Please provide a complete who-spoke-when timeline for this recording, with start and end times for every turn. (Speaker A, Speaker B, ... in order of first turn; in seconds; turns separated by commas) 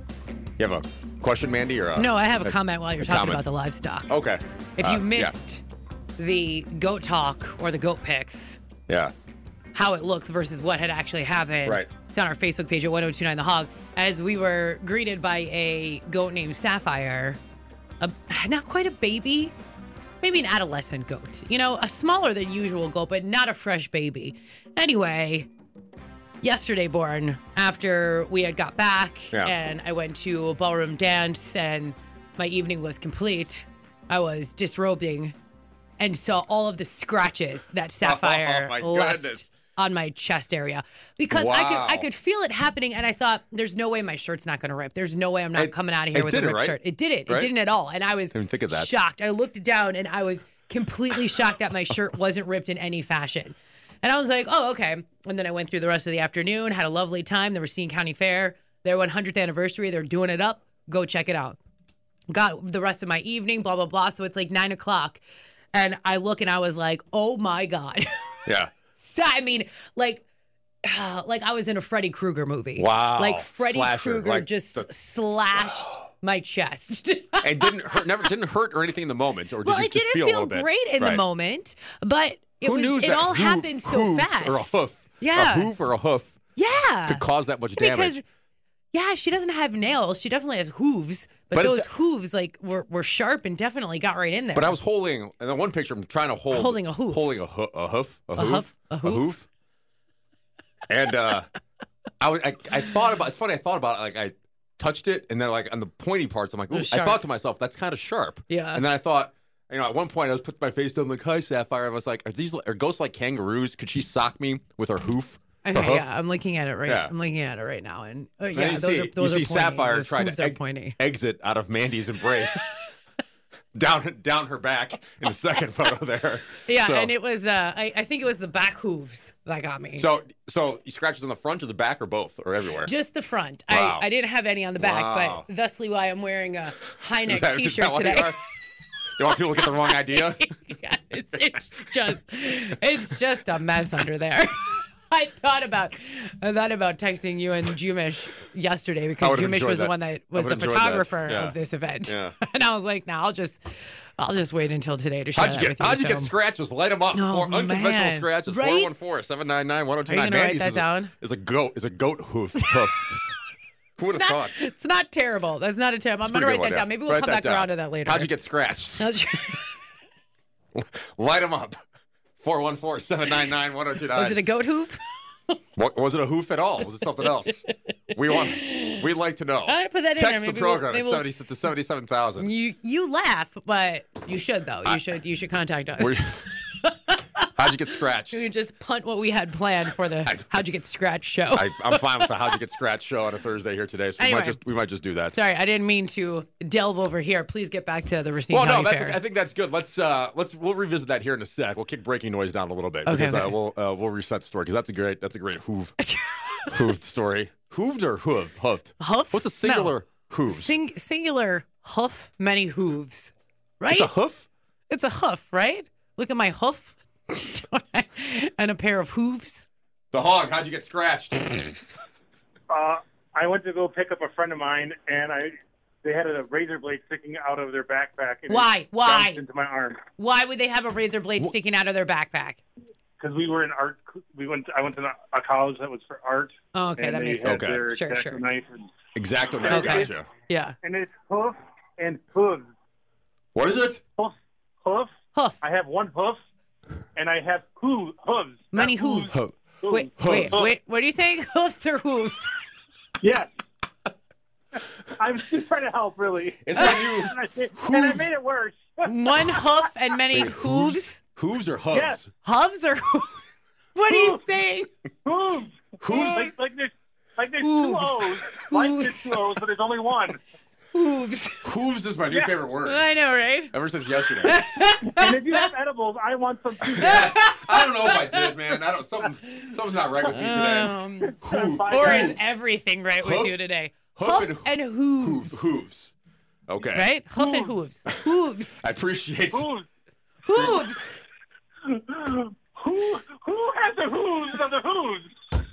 Speaker A: 0.6-3.4, Speaker B: 2.0-4.1, Speaker A: 4.1-5.3, Speaker B: 4.8-5.6, Speaker B: 6.2-8.6, Speaker A: 8.9-9.1, Speaker B: 9.7-17.4, Speaker A: 11.7-11.9, Speaker B: 18.0-19.5, Speaker B: 20.2-25.5, Speaker B: 26.4-35.4, Speaker B: 36.0-61.6, Speaker A: 38.0-39.5, Speaker A: 41.3-42.1, Speaker A: 45.5-47.5, Speaker A: 48.3-49.0, Speaker B: 62.3-65.2, Speaker B: 65.7-68.5, Speaker B: 69.0-70.2, Speaker B: 70.8-78.1, Speaker A: 72.8-74.9, Speaker A: 75.5-75.9, Speaker A: 77.4-81.2, Speaker B: 79.6-85.7, Speaker A: 82.6-86.4, Speaker B: 86.6-88.2, Speaker A: 87.1-88.2, Speaker B: 88.9-94.8, Speaker A: 91.5-91.9, Speaker A: 94.5-99.5, Speaker B: 96.5-97.3, Speaker B: 98.4-99.4, Speaker A: 100.9-101.5, Speaker A: 102.2-116.1, Speaker B: 106.7-107.2, Speaker B: 108.5-108.8, Speaker B: 115.6-121.0, Speaker A: 116.9-117.1, Speaker A: 118.5-122.7, Speaker A: 123.7-127.1, Speaker B: 126.7-130.1, Speaker A: 130.0-132.9, Speaker B: 132.8-138.4, Speaker A: 133.7-134.1, Speaker A: 134.8-135.5, Speaker A: 137.2-138.4, Speaker A: 139.2-140.6, Speaker B: 139.4-156.3, Speaker A: 149.2-152.4, Speaker A: 155.3-163.2, Speaker B: 157.1-158.9, Speaker B: 160.1-161.1, Speaker A: 164.0-164.6, Speaker B: 164.1-168.3, Speaker A: 166.2-169.1, Speaker B: 168.9-169.7, Speaker A: 170.8-171.8, Speaker A: 172.4-174.4, Speaker B: 174.1-175.0, Speaker A: 175.8-182.5, Speaker B: 178.1-179.1, Speaker B: 179.7-181.7, Speaker B: 182.4-192.5, Speaker A: 186.0-186.4, Speaker A: 187.5-188.4, Speaker A: 191.5-195.4, Speaker B: 194.2-194.6, Speaker B: 195.3-199.2, Speaker A: 198.5-206.0, Speaker B: 203.1-203.6, Speaker B: 206.0-206.8, Speaker A: 206.7-210.8, Speaker B: 209.0-209.9, Speaker B: 210.5-214.1, Speaker A: 213.9-214.5, Speaker B: 214.9-219.7, Speaker A: 220.1-221.8, Speaker C: 222.7-230.0, Speaker B: 228.5-229.4, Speaker B: 230.2-232.6, Speaker C: 233.2-238.9, Speaker B: 236.7-238.4, Speaker A: 237.4-237.8, Speaker A: 239.2-240.3, Speaker B: 239.6-240.8, Speaker C: 239.7-240.0, Speaker C: 240.8-242.7, Speaker A: 243.6-244.0, Speaker C: 244.2-246.4, Speaker C: 247.2-250.7, Speaker B: 248.7-249.3, Speaker A: 249.3-249.6, Speaker B: 249.9-252.5, Speaker A: 250.2-250.7, Speaker C: 253.2-253.5, Speaker C: 255.2-259.4, Speaker A: 256.6-258.3, Speaker B: 256.8-257.2, Speaker B: 259.1-261.2, Speaker A: 260.3-262.3, Speaker C: 261.9-262.2, Speaker B: 262.4-263.4, Speaker B: 263.9-264.9, Speaker C: 264.1-264.4, Speaker C: 265.2-270.4, Speaker A: 266.0-266.5, Speaker B: 266.1-266.4, Speaker B: 267.6-269.6, Speaker B: 270.9-271.7, Speaker A: 271.6-273.1, Speaker C: 272.3-272.6, Speaker B: 272.8-275.7, Speaker A: 273.7-274.6, Speaker C: 275.0-277.4, Speaker B: 276.9-285.6, Speaker A: 277.0-282.4, Speaker C: 281.4-282.4, Speaker A: 283.2-283.6, Speaker A: 284.1-286.1, Speaker A: 286.7-287.1, Speaker B: 286.9-288.8, Speaker C: 287.4-287.8, Speaker A: 288.8-289.7, Speaker C: 289.5-289.9, Speaker B: 290.4-291.2, Speaker C: 290.5-290.9, Speaker C: 291.9-295.3